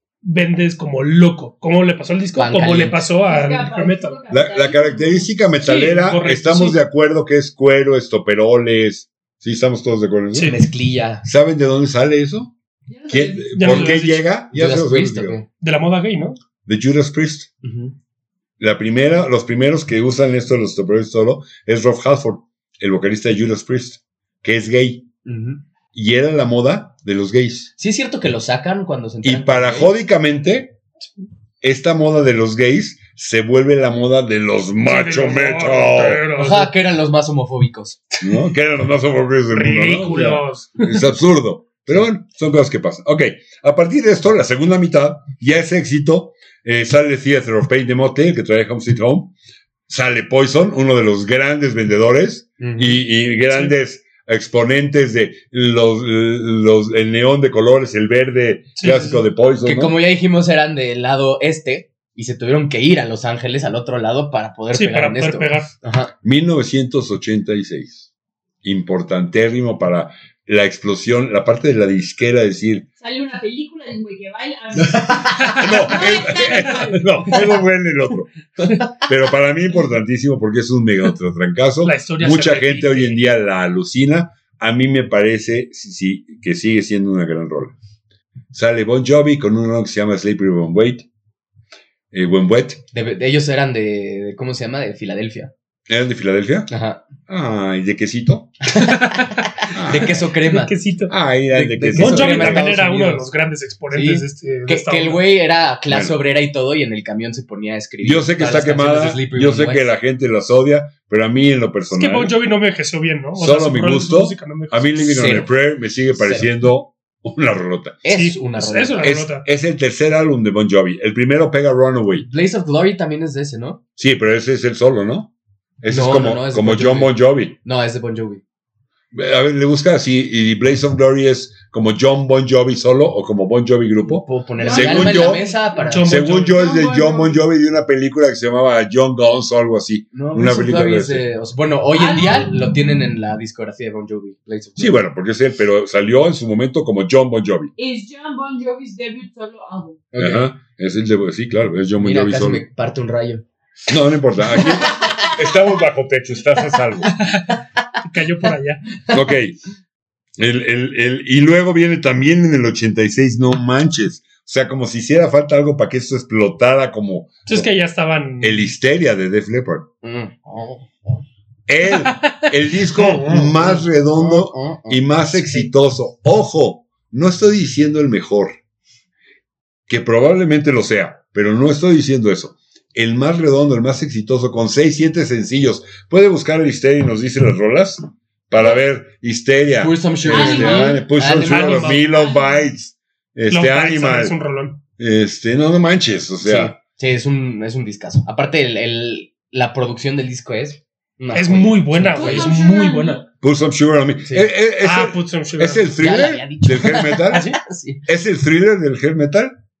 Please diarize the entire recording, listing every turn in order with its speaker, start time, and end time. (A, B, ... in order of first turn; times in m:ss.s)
0:00.2-0:04.2 A
0:02.4-0:03.0 B
0:03.2-0:05.3 C
0:04.3-0:10.6 D
0:05.6-0:06.8 A
0:10.4-0:11.2 B
0:11.2-0:12.5 D
0:12.9-0:14.0 C
0:13.1-0:15.4 D
0:13.6-0:14.2 A
0:14.5-0:15.5 B
0:15.6-0:16.4 A
0:16.6-0:17.5 D
0:17.6-0:17.9 B
0:18.6-0:25.1 D
0:25.2-0:25.6 B
0:25.9-0:27.7 D
0:27.8-0:29.9 B
0:29.2-0:30.8 D
0:31.6-0:36.2 D
0:34.8-0:36.7 A
0:36.4-0:38.3 B
0:38.2-0:49.3 D
0:39.5-0:41.0 A
0:49.9-1:00.0 D
0:52.6-0:53.0 B
0:58.8-0:59.2 A
0:59.6-1:06.1 B
1:04.7-1:05.7 A
1:06.2-1:08.1 D
1:08.6-1:12.8 D
1:13.0-1:17.5 C
1:14.9-1:15.6 B
1:15.4-1:16.9 A
1:15.6-1:27.7 D
1:18.6-1:18.9 B
1:21.8-1:23.2 A
1:28.5-1:31.0 D
1:32.1-1:32.8 D
1:32.9-1:35.5 B
1:35.9-1:36.7 D
1:36.7-1:37.0 B
1:37.3-1:38.5 D
1:38.6-1:40.7 B
1:38.8-1:39.5 A
1:39.7-1:40.2 D
1:40.0-1:41.1 A
1:41.1-1:42.7 D
1:41.5-1:43.3 B
1:41.9-1:45.3 A
1:43.9-1:49.9 B
1:45.9-1:46.1 D
1:48.0-1:52.4 D
1:51.9-1:55.4 A
1:53.4-1:58.0 D
1:55.0-1:55.5 B
1:56.1-1:56.5 B
1:58.0-1:59.1 B
1:58.1-1:59.4 A
1:59.0-2:02.3 D
2:02.2-2:03.8 B
2:04.0-2:07.6 D
2:05.9-2:08.4 B
2:09.1-2:15.4 D
2:14.0-2:16.1 B
2:14.6-2:15.8 C
2:15.8-2:16.6 A
2:16.0-2:21.2 D
2:16.4-2:17.4 C
2:20.1-2:25.0 B
2:21.9-2:22.6 C
2:24.8-2:27.7 D
2:27.8-2:30.0 C
2:30.1-2:30.5 B
2:30.2-2:32.6 D
2:32.0-2:33.4 B
2:33.9-2:37.2 D
2:34.6-2:35.1 B
2:37.2-2:38.8 A
2:39.1-2:39.6 D
2:40.4-2:47.7 D
2:47.4-2:48.7 A
2:48.4-2:49.9 D
2:50.0-2:51.2 B
2:51.7-2:58.6 D
2:51.9-2:52.4 A
2:53.0-2:53.2 A
2:53.1-2:55.0 B
2:59.9-3:14.3 D
3:09.8-3:12.0 B
3:10.3-3:11.0 C
3:11.3-3:12.0 A
3:12.1-3:12.6 C
3:13.5-3:14.8 A
3:15.0-3:16.7 D
3:16.4-3:22.6 B
3:21.3-3:23.2 A
3:22.1-3:23.2 C
3:23.4-3:27.5 D
3:24.8-3:25.9 A
3:26.0-3:28.0 B
3:28.1-3:29.6 D